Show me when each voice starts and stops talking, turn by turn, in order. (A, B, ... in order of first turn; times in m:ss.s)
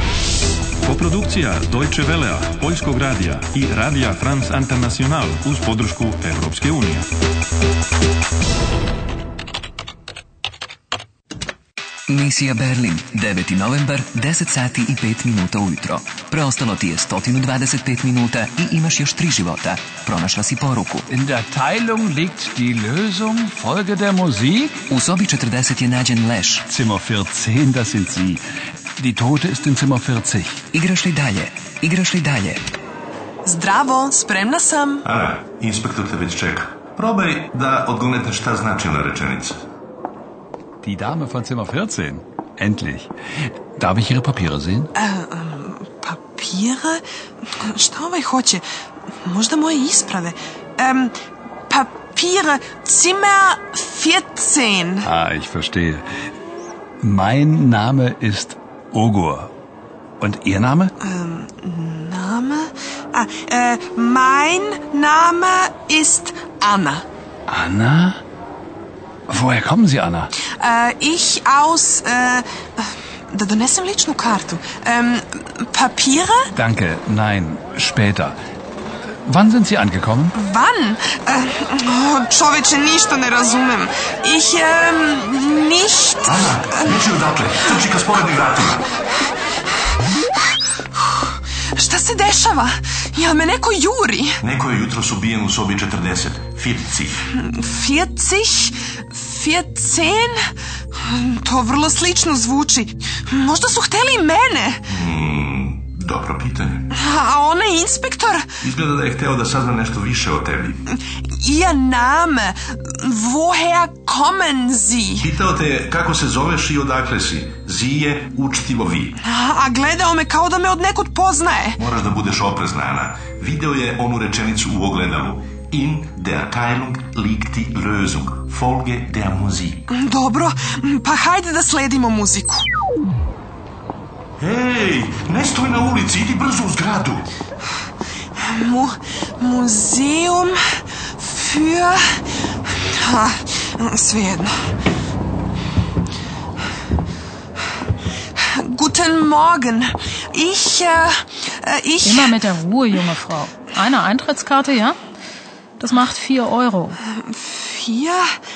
0:00.8-0:07.1 A
0:12.1-0:21.0 B
0:21.1-0:24.9 C
0:24.9-0:26.6 B
0:26.7-0:28.4 C
0:29.0-0:30.6 C
0:30.7-0:32.6 B
0:33.4-0:35.0 D
0:35.0-0:39.6 E
0:40.8-0:43.1 C
0:43.8-0:44.9 C
0:45.0-0:47.0 D
0:47.6-0:48.6 D
0:49.2-0:51.2 D
0:51.7-0:55.1 D
0:55.0-0:56.0 C
0:57.0-0:59.5 C
1:00.2-1:00.9 C
1:01.0-1:07.0 D
1:07.5-1:08.2 C
1:09.3-1:10.3 C
1:10.6-1:16.5 D
1:16.5-1:18.4 C
1:19.3-1:20.4 C
1:20.4-1:26.3 D
1:26.2-1:28.9 E
1:31.8-1:34.4 D
1:34.4-1:37.2 E
1:37.4-1:40.4 D
1:41.0-1:44.8 D
1:44.9-1:46.9 E
1:46.9-1:48.5 D
1:48.6-1:50.8 E
1:51.4-1:55.3 D
1:55.2-1:59.2 E
1:59.2-2:01.8 D
2:01.8-2:09.8 E
2:09.9-2:12.6 D
2:14.4-2:17.3 E
2:18.4-2:20.6 D
2:21.2-2:22.0 D
2:22.9-2:24.6 D
2:28.5-2:32.3 D
2:32.0-2:35.0 F
2:35.8-2:37.0 F
2:37.2-2:38.3 D